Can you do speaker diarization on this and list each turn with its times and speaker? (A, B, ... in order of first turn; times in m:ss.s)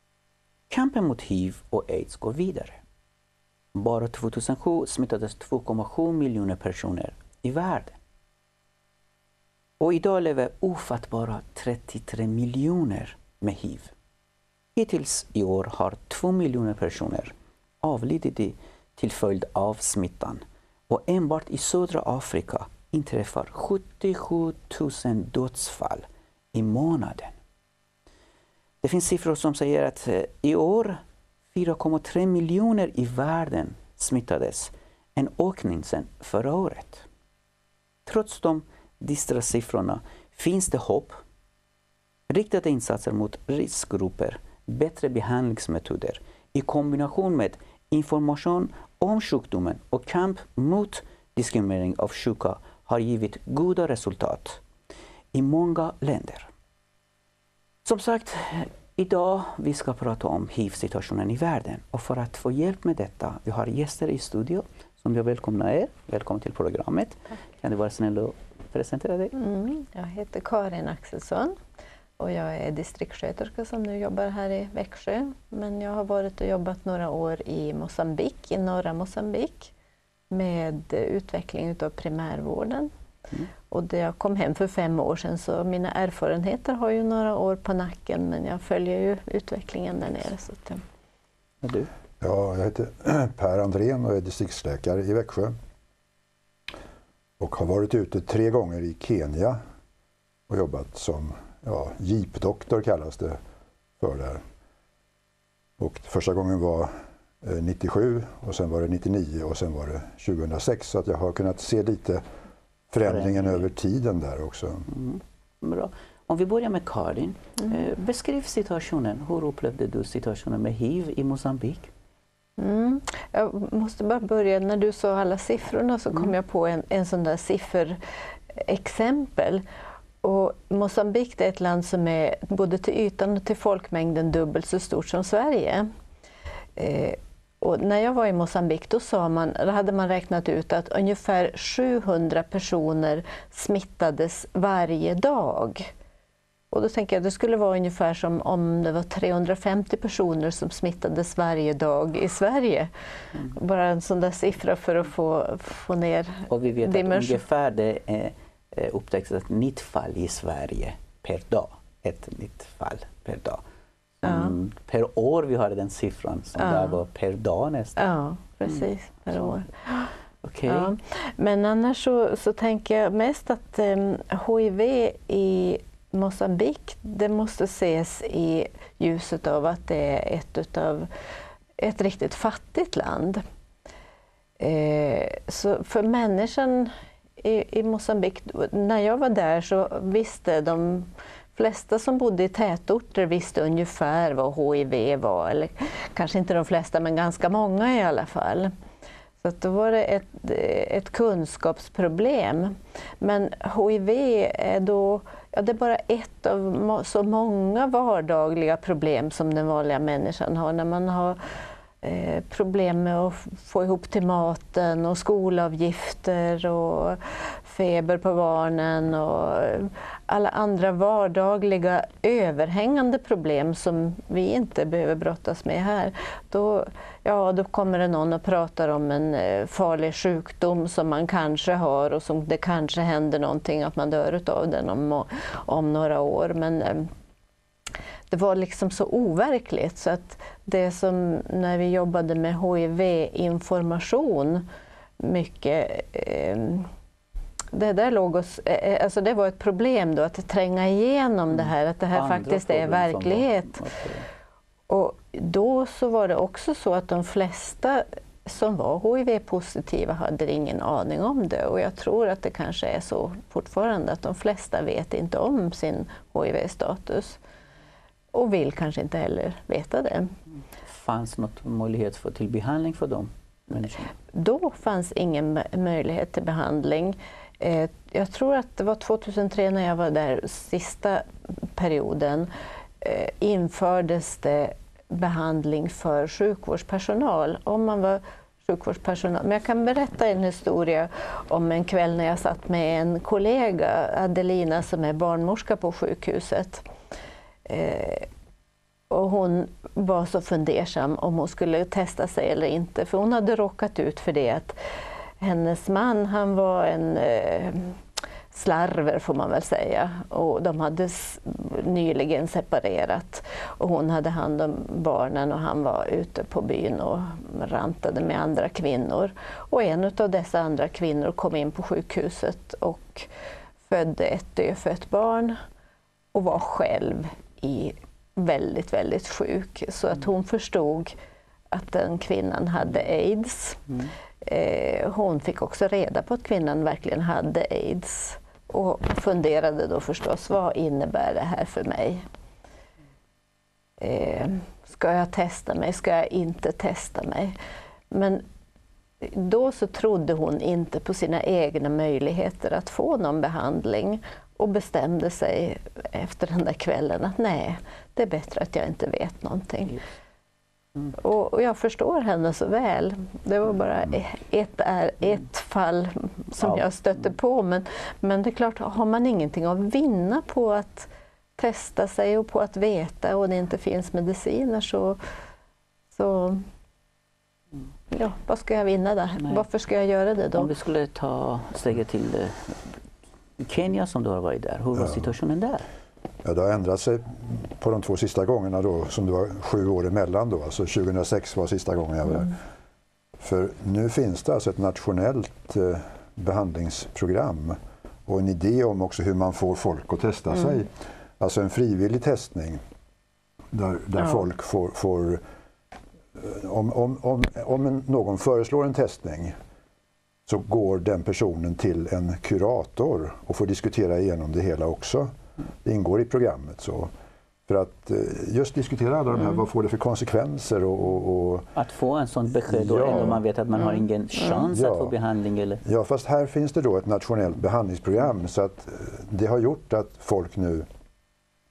0:00.7-0:02.8 A
0:03.8-0:08.0 A
0:09.8-0:13.9 A
0:14.8-0:27.3 A
0:28.8-0:31.0 A
0:31.5-0:37.1 A
0:38.1-0:41.2 A
0:42.3-0:54.6 A
0:55.3-0:56.5 A
0:57.8-1:09.3 A
1:09.4-1:11.6 B
1:12.2-1:19.7 B
1:20.3-1:22.9 B
1:23.7-1:30.8 B
1:31.6-1:31.9 A
1:32.2-1:35.5 C
1:37.4-1:39.6 C
1:40.5-1:43.4 C
1:44.0-1:44.4 C
1:45.8-1:46.9 C
1:47.4-1:52.2 C
1:52.9-1:54.9 C
1:53.0-1:53.7 A
1:54.9-2:01.9 A
2:02.6-2:08.0 B
2:08.5-2:09.6 B
2:10.2-2:15.9 B
2:16.8-2:25.9 B
2:26.7-2:32.9 B
2:33.4-2:37.4 B
2:36.5-2:43.6 A
2:44.2-2:48.0 A
2:44.2-2:44.5 B
2:46.6-2:47.0 B
2:48.0-2:50.1 B
2:50.4-2:50.9 A
2:50.7-3:01.1 B
3:01.8-3:03.4 B
3:04.6-3:18.7 B
3:19.4-3:31.4 B
3:32.0-3:57.1 B
3:58.3-4:04.7 B
4:05.2-4:06.9 B
4:07.7-4:13.8 B
4:12.1-4:14.3 A
4:14.9-4:27.4 B
4:28.3-4:30.3 B
4:30.9-4:34.1 A
4:34.3-4:42.5 B
4:43.0-4:56.8 B
4:57.7-4:58.3 B
4:59.1-5:04.8 B
5:05.4-5:08.0 B
5:08.5-5:23.3 B
5:23.8-5:25.6 B
5:26.3-5:31.2 B
5:31.7-5:42.2 B
5:44.0-5:47.6 B
5:48.1-5:48.4 B
5:49.2-6:00.0 B
6:01.1-6:15.2 B
6:16.1-6:16.6 B
6:18.1-6:20.7 B
6:20.6-6:22.9 A
6:23.6-6:25.8 A
6:26.4-6:32.6 C
6:33.4-6:42.8 C
6:43.7-6:45.4 C
6:46.4-6:49.5 C
6:50.5-6:55.3 C
6:55.8-6:57.1 C
6:57.7-7:01.7 C
7:01.8-7:05.8 A
7:02.6-7:03.4 C
7:04.7-7:05.2 C
7:05.8-7:10.9 C